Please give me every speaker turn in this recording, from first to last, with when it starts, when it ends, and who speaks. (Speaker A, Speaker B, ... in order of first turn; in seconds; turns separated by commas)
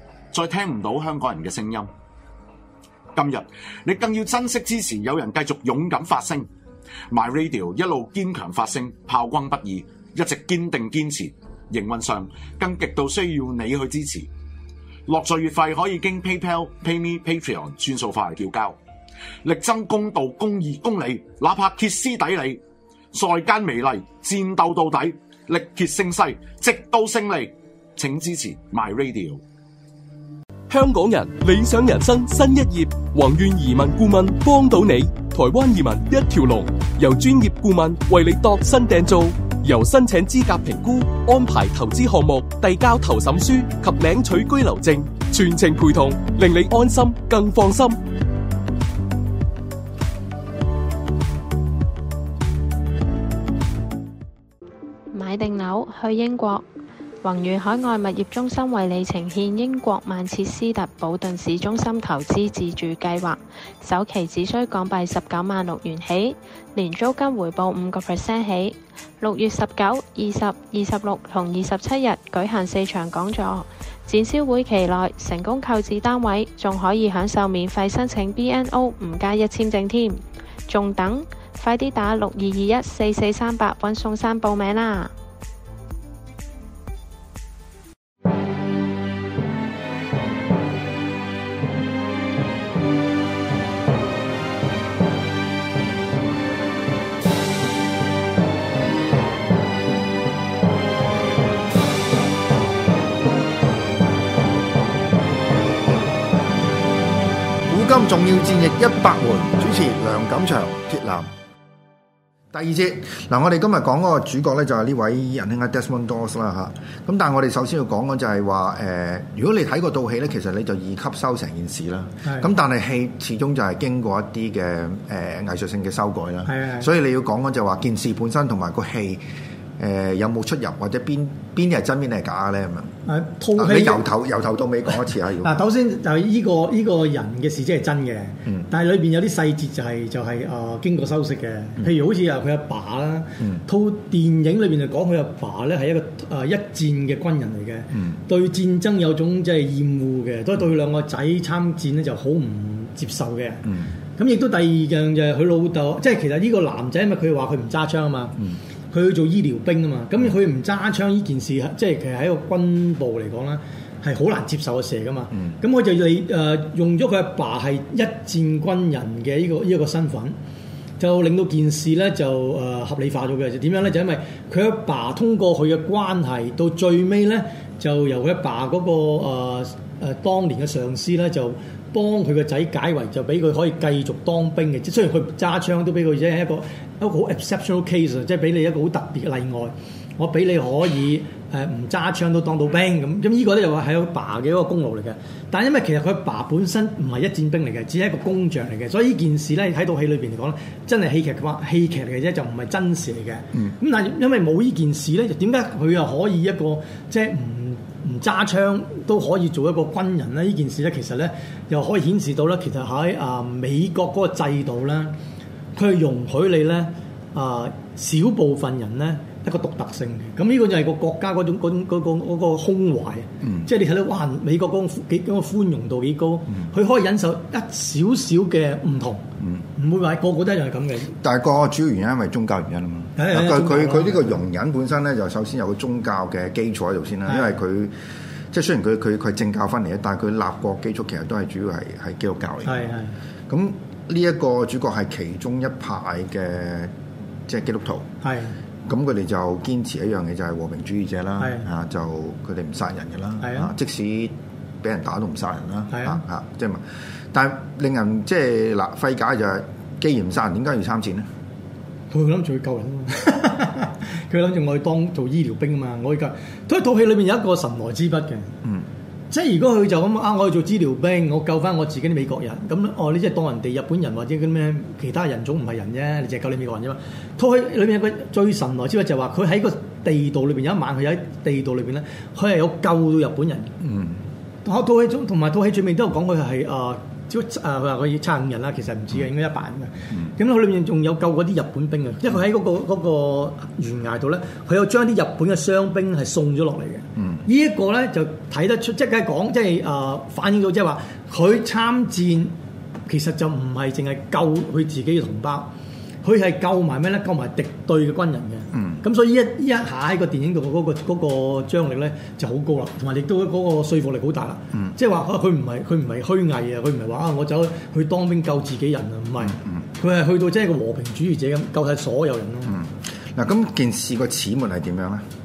Speaker A: 0.3-1.9, Speaker A: 3.1-6.5, Speaker A: 7.1-14.3, Speaker A: 15.1-18.8, Speaker A: 19.4-22.6, Speaker A: 23.1-29.4, Speaker B: 30.7-48.0, Speaker C: 55.1-56.6, Speaker C: 57.2-85.1, Speaker D: 107.7-111.3, Speaker D: 112.5-129.2, Speaker E: 126.5-126.9, Speaker D: 129.8-132.9, Speaker E: 133.1-134.0, Speaker D: 133.6-135.5, Speaker E: 135.4-158.4, Speaker E: 158.9-170.3, Speaker E: 171.0-215.1, Speaker E: 215.7-231.1, Speaker D: 231.2-237.9, Speaker E: 233.2-234.4, Speaker E: 237.3-237.6, Speaker D: 238.5-242.9, Speaker E: 242.6-243.1, Speaker D: 243.5-246.9, Speaker D: 247.5-248.1, Speaker E: 248.2-248.5, Speaker D: 248.9-256.8, Speaker E: 251.4-251.7, Speaker E: 253.4-253.7, Speaker E: 255.9-256.2, Speaker D: 257.3-261.2, Speaker E: 262.1-268.5, Speaker E: 269.3-283.7, Speaker D: 283.8-284.1, Speaker E: 284.6-302.5, Speaker E: 303.1-305.7, Speaker E: 306.2-322.8, Speaker D: 308.7-309.0, Speaker D: 322.7-325.2